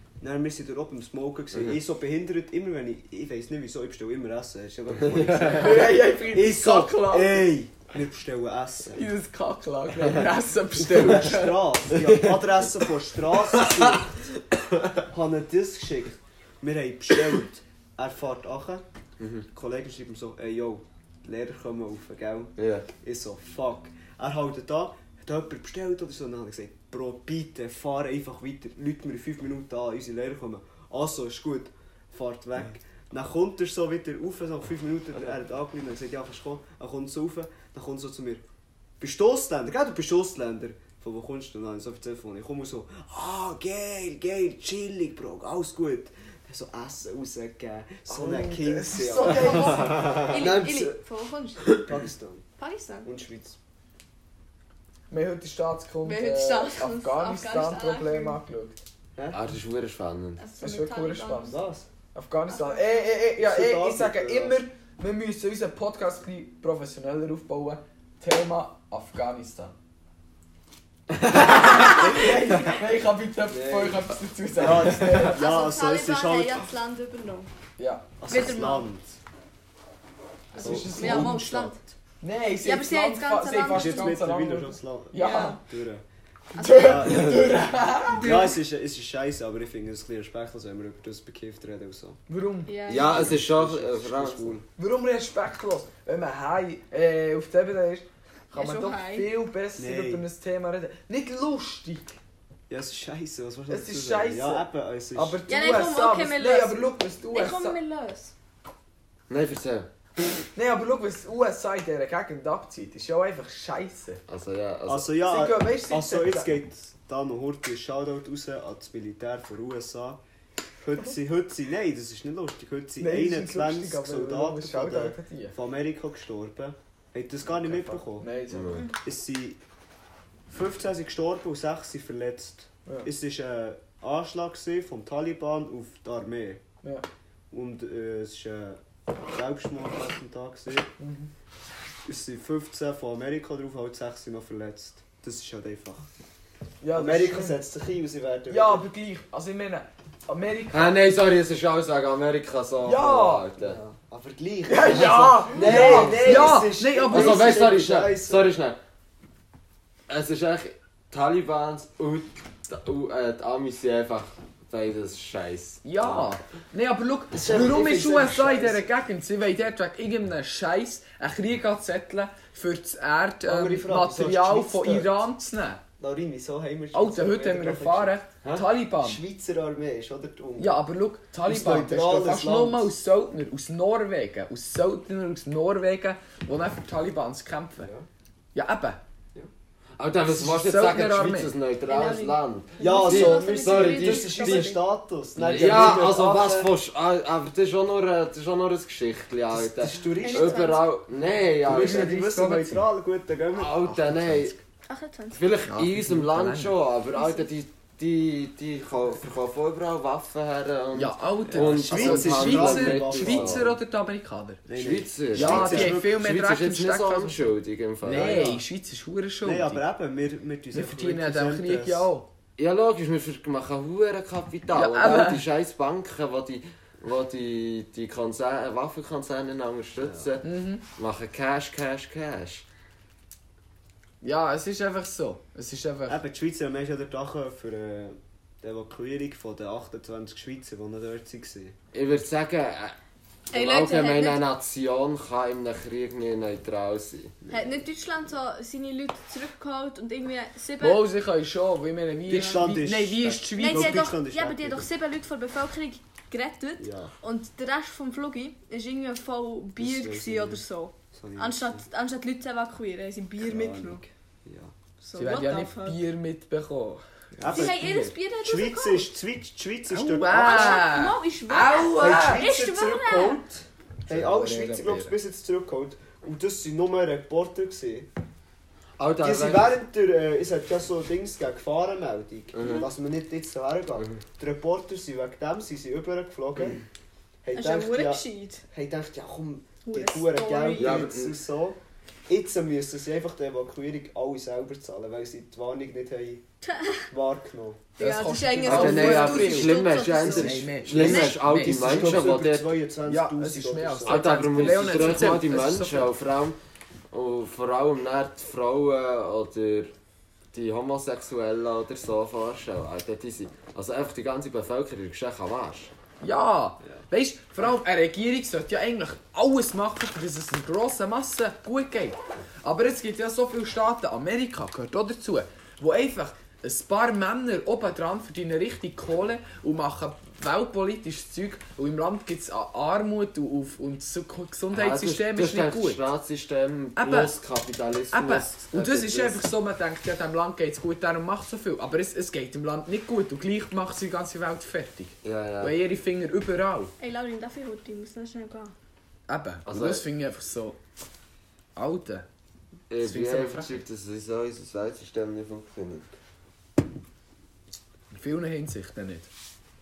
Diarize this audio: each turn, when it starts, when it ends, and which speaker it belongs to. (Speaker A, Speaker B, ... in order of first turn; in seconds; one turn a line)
Speaker A: 0.2-9.1
Speaker B: 5.0-5.9
Speaker C: 5.5-7.5
Speaker C: 8.9-11.7
Speaker A: 10.8-14.2
Speaker B: 11.9-12.7
Speaker B: 13.5-14.0
Speaker B: 14.6-14.9
Speaker A: 15.1-18.9
Speaker B: 19.2-19.4
Speaker A: 19.5-38.4
Speaker B: 22.6-22.9
Speaker A: 39.0-50.9
Speaker C: 48.1-50.2
Speaker D: 49.6-51.8
Speaker B: 49.7-50.7
Speaker A: 51.8-52.5
Speaker D: 52.6-53.1
Speaker A: 53.0-53.6
Speaker C: 55.1-58.8
Speaker D: 56.0-58.4
Speaker B: 59.3-60.4
Speaker D: 60.4-61.6
Speaker C: 60.6-61.6
Speaker A: 61.5-61.9
Speaker C: 62.1-69.8
Speaker D: 62.5-63.1
Speaker A: 63.4-64.6
Speaker B: 71.2-72.7
Speaker C: 71.3-75.4
Speaker A: 73.5-74.0
Speaker A: 74.6-76.6
Speaker D: 75.1-77.5
Speaker C: 77.8-78.1
Speaker A: 78.2-79.2
Speaker D: 78.3-78.9
Speaker C: 80.5-81.7
Speaker D: 80.5-81.8
Speaker A: 80.6-81.7
Speaker C: 82.2-85.6
Speaker D: 82.6-84.2
Speaker A: 83.7-86.0
Speaker D: 85.2-85.6
Speaker D: 86.6-87.3
Speaker C: 86.6-88.4
Speaker A: 86.6-92.2
Speaker D: 88.2-88.6
Speaker C: 92.3-92.7
Speaker D: 92.7-93.3
Speaker B: 92.9-94.6
Speaker A: 92.9-94.6
Speaker C: 94.8-102.2
Speaker D: 98.5-99.3
Speaker A: 99.8-100.3
Speaker A: 102.7-105.4
Speaker C: 103.7-107.8
Speaker D: 105.5-108.3
Speaker B: 109.3-109.9
Speaker C: 110.5-114.2
Speaker B: 114.3-115.1
Speaker A: 114.9-120.2
Speaker C: 115.2-116.5
Speaker A: 120.8-128.3
Speaker C: 123.0-125.6
Speaker C: 127.5-128.8
Speaker B: 128.5-128.9
Speaker A: 129.0-129.6
Speaker A: 130.5-136.6
Speaker A: 137.5-140.9
Speaker C: 141.0-141.3
Speaker A: 142.1-146.1
Speaker C: 146.8-147.6
Speaker A: 146.9-148.8
Speaker C: 148.5-151.0
Speaker B: 150.7-153.8
Speaker C: 152.8-153.5
Speaker A: 153.6-158.5
Speaker C: 154.7-157.6
Speaker B: 155.6-158.8
Speaker B: 160.1-166.4
Speaker C: 165.8-175.8
Speaker A: 167.3-168.9
Speaker A: 173.4-175.2
Speaker A: 176.0-180.8
Speaker C: 176.9-179.2
Speaker C: 180.6-187.9
Speaker A: 181.4-182.9
Speaker A: 187.8-188.1
Speaker C: 188.5-189.0
Speaker B: 190.0-194.7
Speaker C: 190.3-191.6
Speaker D: 191.9-194.8
Speaker A: 192.8-196.8
Speaker B: 195.4-202.5
Speaker C: 195.5-195.8
Speaker A: 199.5-200.8
Speaker D: 200.2-200.9
Speaker A: 201.6-203.9
Speaker C: 201.7-202.8
Speaker B: 203.5-204.6
Speaker C: 203.9-204.5
Speaker D: 204.9-205.5
Speaker B: 205.4-213.7
Speaker C: 205.7-206.8
Speaker D: 207.1-207.5
Speaker C: 210.9-214.6
Speaker A: 211.5-213.7
Speaker A: 214.7-216.2
Speaker B: 214.8-218.6
Speaker C: 215.3-217.4
Speaker C: 218.0-219.8
Speaker A: 218.1-218.6
Speaker A: 219.4-222.1
Speaker C: 220.7-222.3
Speaker B: 222.6-232.7
Speaker C: 224.7-225.4
Speaker A: 230.0-230.3
Speaker C: 230.4-230.8
Speaker C: 234.2-236.2
Speaker A: 236.1-241.8
Speaker B: 241.9-243.0
Speaker D: 243.5-244.4
Speaker B: 243.5-247.3
Speaker A: 247.4-247.8
Speaker D: 247.5-251.1
Speaker C: 250.8-254.1
Speaker A: 252.3-254.9
Speaker D: 253.6-264.0
Speaker A: 256.8-257.1
Speaker A: 259.8-260.6
Speaker A: 261.1-261.9
Speaker A: 263.4-264.7
Speaker D: 265.0-266.0
Speaker C: 265.2-267.9
Speaker A: 267.4-270.9
Speaker D: 267.5-269.1
Speaker C: 269.9-272.5
Speaker D: 270.2-273.4
Speaker A: 271.7-278.1
Speaker C: 274.1-275.2
Speaker B: 279.0-279.7
Speaker A: 279.2-286.8
Speaker B: 282.6-282.9
Speaker A: 287.4-296.4
Speaker D: 287.5-288.6
Speaker D: 289.9-291.1
Speaker B: 290.8-291.3
Speaker D: 296.6-297.1
Speaker A: 297.1-297.8
Speaker D: 298.0-301.4
Speaker C: 298.0-302.3
Speaker B: 298.6-302.7
Speaker A: 301.5-305.3
Speaker C: 303.1-306.1
Speaker B: 304.1-306.6
Speaker B: 307.1-309.9
Speaker B: 310.5-315.9
Speaker C: 316.2-336.0
Speaker B: 334.7-339.4
Speaker C: 337.0-337.3
Speaker C: 338.1-346.9
Speaker B: 345.2-345.8
Speaker D: 347.0-348.7
Speaker C: 349.3-350.8
Speaker B: 349.7-350.1
Speaker C: 351.8-352.3
Speaker B: 352.9-356.1
Speaker C: 353.0-353.8
Speaker C: 358.1-359.3